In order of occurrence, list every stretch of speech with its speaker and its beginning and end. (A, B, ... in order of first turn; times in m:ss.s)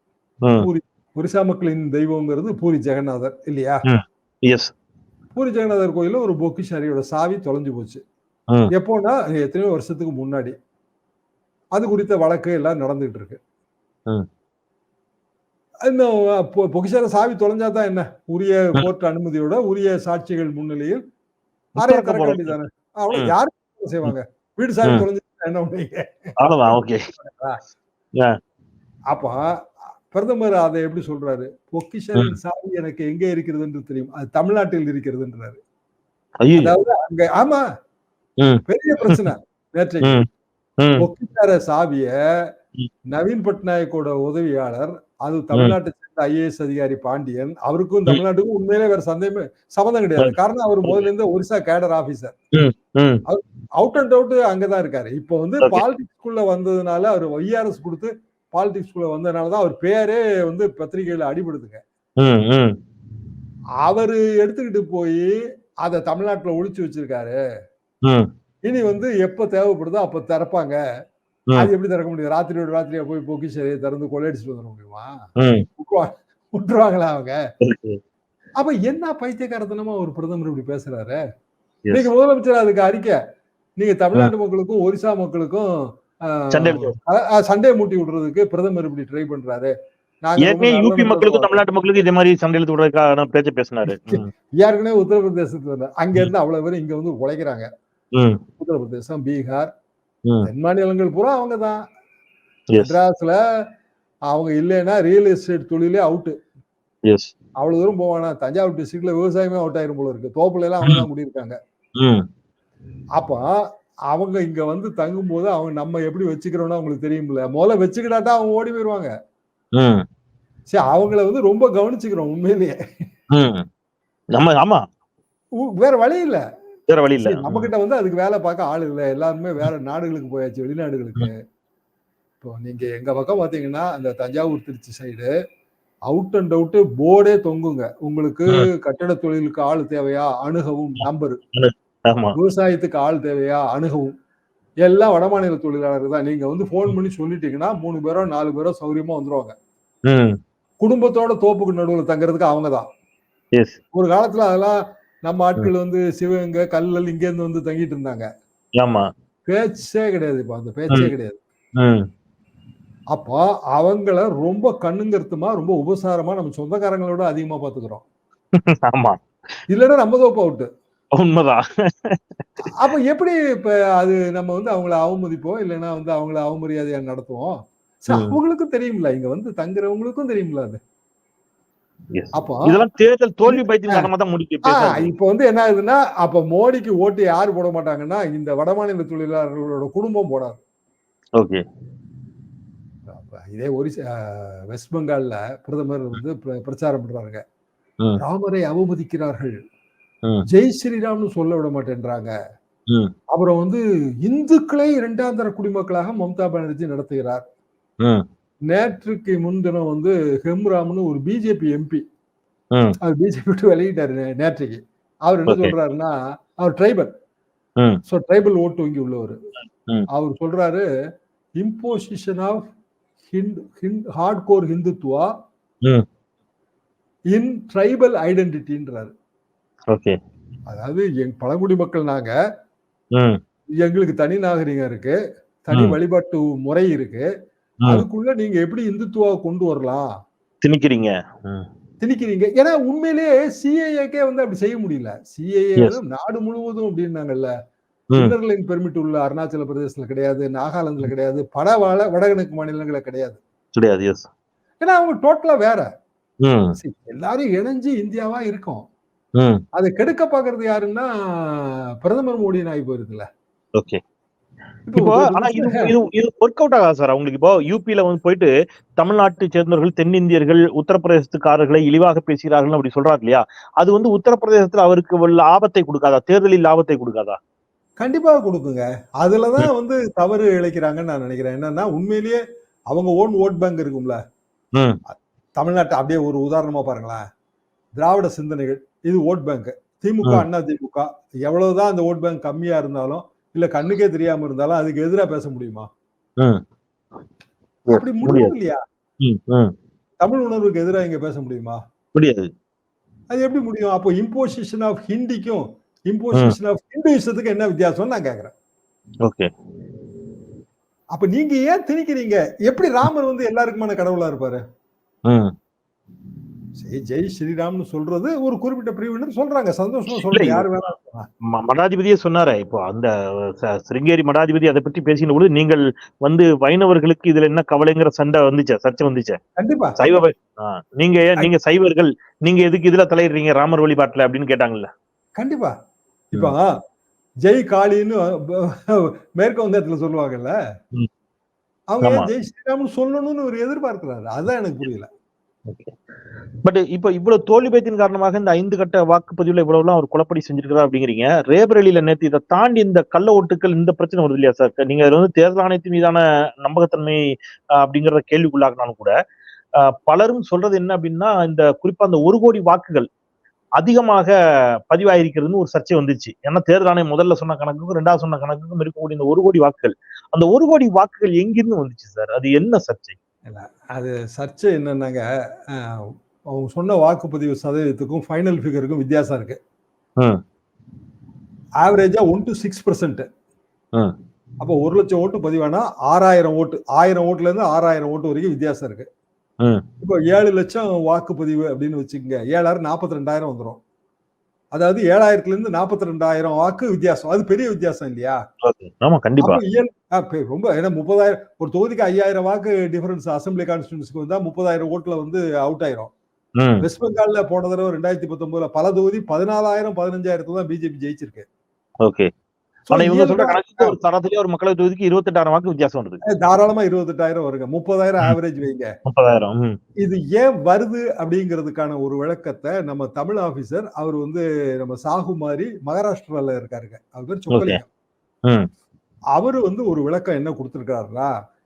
0:00.4-0:00.7 A
0:00.6-0:03.8 B
0:03.9-0:04.7 A
0:05.4-0:08.0 B
0:08.7-0:10.6 B
0:11.8-0:13.4 B
0:15.8-0:21.0 B
0:21.8-0:22.5 A
0:21.8-0:27.6 B
0:26.4-0:27.1 A
0:29.1-0:29.4 B
0:30.1-0:35.6 B
0:36.4-0:36.8 A
0:36.6-0:37.6 B
0:38.4-0:39.3 A
0:38.7-0:40.2 B
0:40.0-0:40.3 A
0:41.0-0:42.1 B
0:43.1-0:52.4 B
0:50.2-0:51.1 A
0:52.6-0:53.2 A
0:53.3-1:01.8 B
1:02.2-1:02.8 A
1:03.8-1:05.3 B
1:05.8-1:07.4 B
1:08.6-1:10.8 B
1:11.6-1:15.1 B
1:15.4-1:15.7 A
1:15.8-1:17.4 B
1:17.6-1:18.0 A
1:18.6-1:21.2 B
1:21.9-1:23.2 B
1:23.8-1:25.7 B
1:26.3-1:29.7 B
1:26.5-1:27.0 A
1:30.2-1:31.6 B
1:30.4-1:34.3 A
1:33.9-1:37.7 B
1:38.6-1:39.7 B
1:40.4-1:41.8 B
1:42.8-1:43.4 B
1:44.3-1:46.4 B
1:47.1-1:47.3 A
1:47.6-1:51.6 B
1:53.2-1:53.5 B
1:54.1-1:59.1 B
1:59.8-2:00.0 A
2:00.7-2:02.8 B
2:03.3-2:03.6 A
2:04.3-2:04.8 A
2:05.6-2:06.4 B
2:06.9-2:07.7 A
2:07.2-2:11.4 B
2:12.4-2:15.3 B
2:16.1-2:21.4 B
2:21.6-2:22.4 A
2:22.4-2:24.1 B
2:24.8-2:29.6 B
2:30.1-2:30.4 A
2:30.8-2:32.9 B
2:33.9-2:34.8 B
2:35.3-2:38.3 B
2:38.8-2:39.0 A
2:39.5-2:41.4 B
2:41.8-2:42.0 A
2:43.1-2:48.0 B
2:48.6-2:49.2 A
2:49.7-2:50.7 B
2:51.2-2:52.6 A
2:52.7-2:57.5 B
2:58.1-3:00.8 B
2:58.1-2:58.4 A
3:02.1-3:05.1 A
3:02.4-3:02.8 B
3:03.5-3:04.1 B
3:04.7-3:10.6 B
3:13.1-3:17.4 B
3:18.2-3:19.5 B
3:20.5-3:22.3 B
3:23.3-3:27.4 B
3:28.7-3:32.0 B
3:33.0-3:37.1 B
3:35.5-3:35.8 A
3:38.1-3:39.4 B
3:40.1-3:40.8 B
3:41.6-3:42.6 B
3:43.3-3:45.3 B
3:47.3-3:49.1 B
3:49.9-3:50.2 A
3:50.7-3:52.3 B
3:53.8-3:57.2 B
3:57.9-4:00.1 B
4:00.6-4:01.7 A
4:02.0-4:07.5 B
4:08.2-4:13.4 B
4:13.8-4:14.3 A
4:14.8-4:15.9 B
4:16.4-4:16.8 A
4:16.8-4:18.9 B
4:19.4-4:19.6 A
4:19.8-4:23.3 B
4:24.9-4:25.9 B
4:25.0-4:37.4 A
4:38.0-4:44.2 B
4:45.1-4:47.2 B
4:48.0-4:55.9 B
4:57.9-4:58.5 A
4:57.9-4:58.8 B
4:59.2-4:59.7 A
5:00.2-5:01.8 B
5:02.2-5:02.5 A
5:03.3-5:08.5 B
5:09.2-5:09.5 A
5:11.2-5:14.6 B
5:16.8-5:21.3 B
5:20.1-5:20.7 A
5:21.4-5:29.4 A
5:29.6-5:30.0 B
5:30.0-5:34.9 A
5:35.4-5:35.7 B
5:36.3-5:36.7 B
5:37.4-5:40.5 B
5:41.9-5:45.1 B
5:42.0-5:42.3 A
5:45.7-5:46.0 A
5:46.6-5:59.1 A
5:59.8-6:03.1 A
6:03.8-6:04.3 A
6:04.9-6:13.2 A
6:13.5-6:19.6 B
6:21.8-6:23.3 B
6:24.6-6:29.1 B
6:30.0-6:33.8 B
6:34.8-6:38.4 B
6:38.6-6:39.6 A
6:39.4-6:46.1 B
6:46.6-6:46.8 A
6:46.8-6:51.5 B
6:52.0-6:52.3 A
6:52.9-6:54.0 B
6:52.9-6:56.2 A
6:56.4-6:58.9 B
6:59.1-6:59.8 A
7:00.0-7:07.9 B
7:07.5-7:07.8 A
7:09.4-7:11.3 B